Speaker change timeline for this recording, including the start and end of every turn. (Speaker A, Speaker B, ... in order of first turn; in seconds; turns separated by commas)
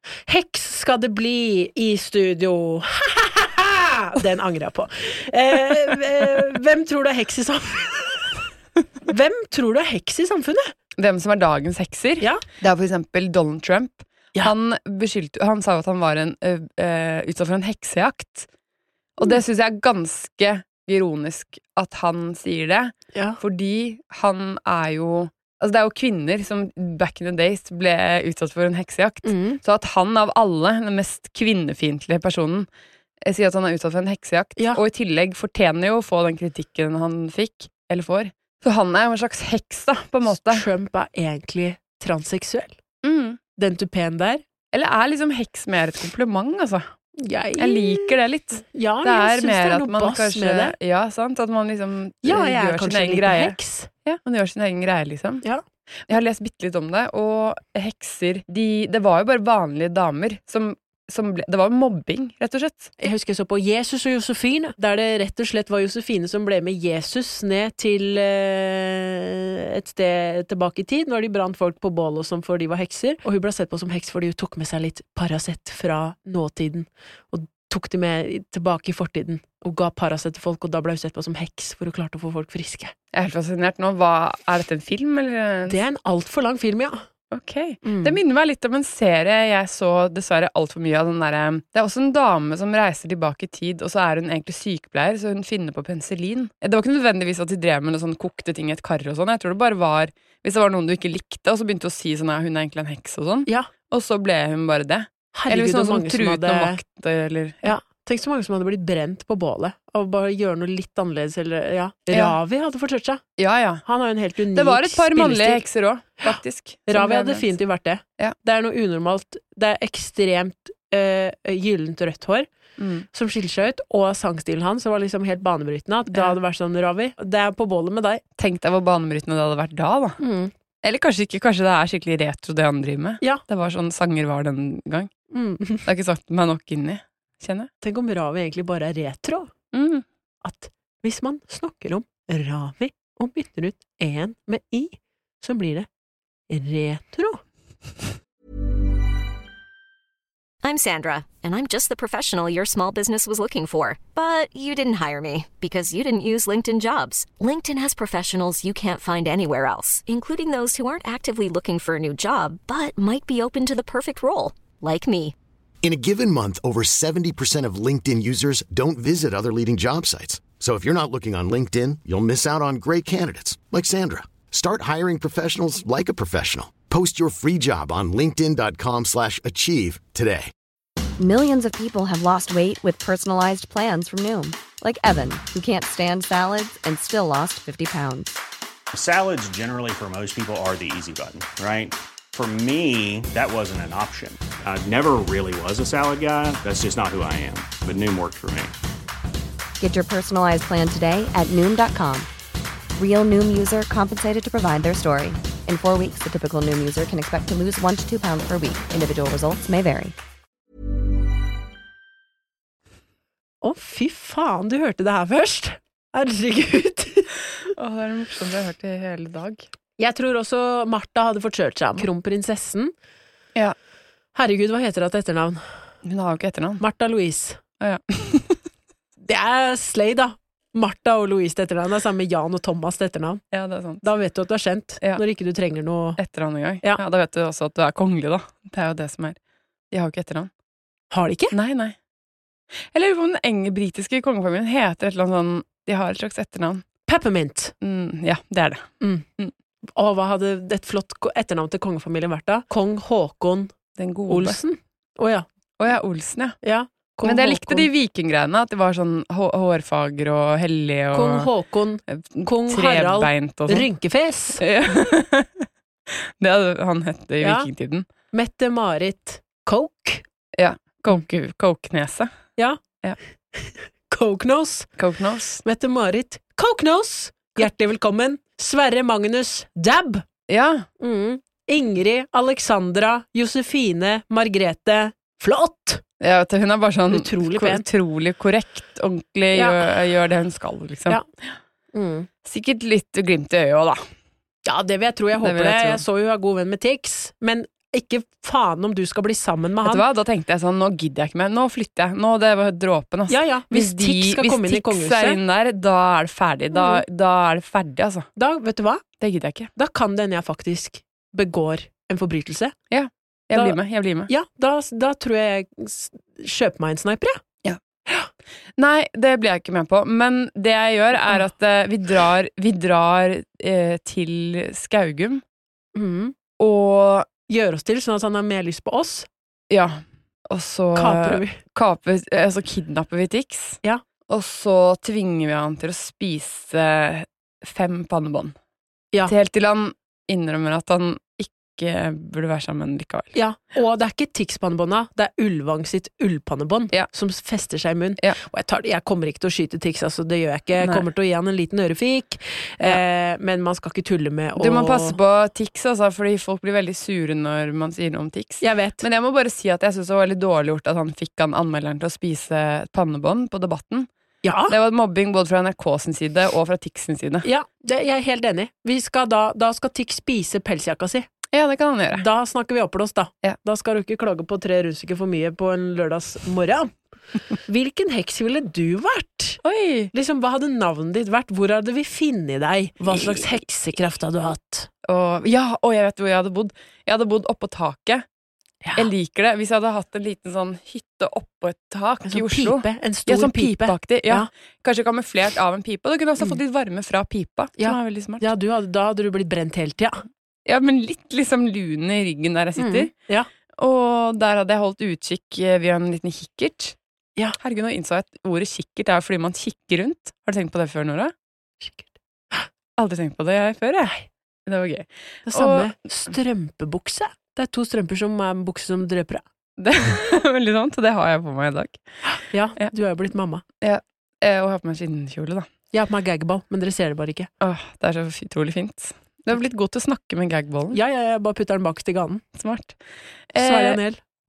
Speaker A: 0.3-8.4, Speaker A: 9.0-10.7, Speaker B: 11.0-18.5, Speaker B: 19.2-32.7, Speaker A: 23.1-23.4, Speaker A: 29.2-29.6, Speaker B: 33.2-40.6, Speaker A: 40.3-42.8, Speaker B: 43.0-43.4, Speaker A: 43.6-44.4, Speaker B: 44.7-46.9, Speaker A: 47.2-50.7, Speaker B: 47.6-55.4, Speaker A: 52.2-53.9, Speaker B: 56.1-62.9, Speaker A: 63.0-82.9, Speaker B: 83.1-85.8, Speaker A: 85.7-87.0, Speaker B: 87.3-107.7, Speaker A: 87.8-88.2, Speaker A: 105.3-106.8, Speaker A: 107.6-113.2, Speaker B: 112.1-112.4, Speaker B: 113.4-113.8, Speaker A: 113.8-115.6, Speaker B: 114.5-117.5, Speaker A: 116.9-122.5, Speaker B: 122.8-123.1, Speaker A: 123.1-128.2, Speaker B: 128.4-130.2, Speaker A: 130.2-130.5, Speaker B: 130.8-135.1, Speaker A: 135.3-135.8, Speaker B: 135.8-137.7, Speaker A: 137.8-139.5, Speaker B: 139.7-140.0, Speaker A: 140.4-145.9, Speaker A: 146.5-147.4, Speaker C: 150.6-165.3, Speaker D: 165.8-180.5, Speaker E: 181.2-188.4, Speaker F: 188.9-198.7, Speaker E: 199.8-202.3, Speaker E: 202.9-210.1, Speaker A: 213.6-217.3, Speaker B: 217.7-219.7, Speaker A: 220.0-222.9, Speaker A: 224.3-225.6, Speaker B: 226.0-226.8, Speaker A: 226.8-227.6, Speaker B: 227.8-228.6, Speaker A: 229.2-233.4, Speaker B: 233.5-234.0, Speaker A: 234.0-236.2, Speaker B: 236.2-239.4, Speaker B: 239.9-240.5, Speaker A: 241.1-241.5, Speaker B: 241.5-241.9, Speaker B: 242.9-246.8, Speaker A: 247.1-247.7, Speaker B: 247.8-248.9, Speaker A: 249.0-249.3, Speaker A: 249.9-253.7, Speaker B: 254.0-254.6, Speaker A: 254.3-255.5, Speaker B: 255.8-256.6, Speaker A: 256.6-257.9, Speaker B: 257.2-261.5, Speaker A: 261.1-264.6, Speaker B: 262.1-263.9, Speaker B: 264.6-268.1, Speaker A: 267.4-267.7, Speaker A: 268.3-270.2, Speaker B: 270.6-272.3, Speaker A: 273.5-274.9, Speaker B: 275.0-275.6, Speaker A: 275.6-280.2, Speaker B: 280.5-280.9, Speaker A: 281.0-286.0, Speaker B: 286.2-291.2, Speaker A: 287.1-287.9, Speaker A: 289.5-289.9, Speaker A: 291.9-292.3, Speaker B: 292.4-294.1, Speaker A: 294.6-300.0, Speaker B: 295.4-296.0, Speaker B: 299.8-308.3, Speaker A: 303.3-305.4, Speaker A: 306.7-307.0, Speaker A: 308.4-309.0, Speaker B: 309.2-309.7, Speaker A: 309.8-312.7, Speaker B: 312.9-314.3, Speaker A: 313.5-317.4, Speaker B: 318.8-325.4, Speaker A: 325.9-326.3, Speaker B: 326.6-327.3, Speaker A: 327.5-329.3, Speaker B: 329.7-338.5, Speaker A: 330.9-331.6, Speaker B: 339.2-343.3, Speaker A: 343.3-355.1, Speaker B: 350.8-351.0, Speaker B: 354.6-364.1, Speaker A: 358.6-359.0, Speaker A: 364.4-364.8, Speaker B: 364.7-367.5, Speaker A: 367.4-371.3, Speaker B: 371.5-372.2, Speaker A: 372.1-376.9, Speaker A: 377.6-379.6, Speaker B: 379.6-380.1, Speaker A: 380.1-384.9, Speaker B: 383.1-383.5, Speaker B: 385.0-388.2, Speaker A: 388.8-389.1, Speaker B: 388.9-398.5, Speaker A: 392.3-394.5, Speaker A: 397.8-400.2, Speaker B: 400.6-403.1, Speaker A: 402.8-403.5, Speaker B: 403.8-406.9, Speaker B: 407.6-411.3, Speaker A: 411.8-412.7, Speaker B: 413.0-415.9, Speaker A: 415.5-419.4, Speaker B: 419.8-422.0, Speaker A: 422.4-423.6, Speaker B: 423.8-425.7, Speaker A: 425.9-427.5, Speaker B: 427.6-431.0, Speaker A: 430.9-432.4, Speaker B: 432.6-432.9, Speaker B: 433.5-434.0, Speaker A: 433.6-434.2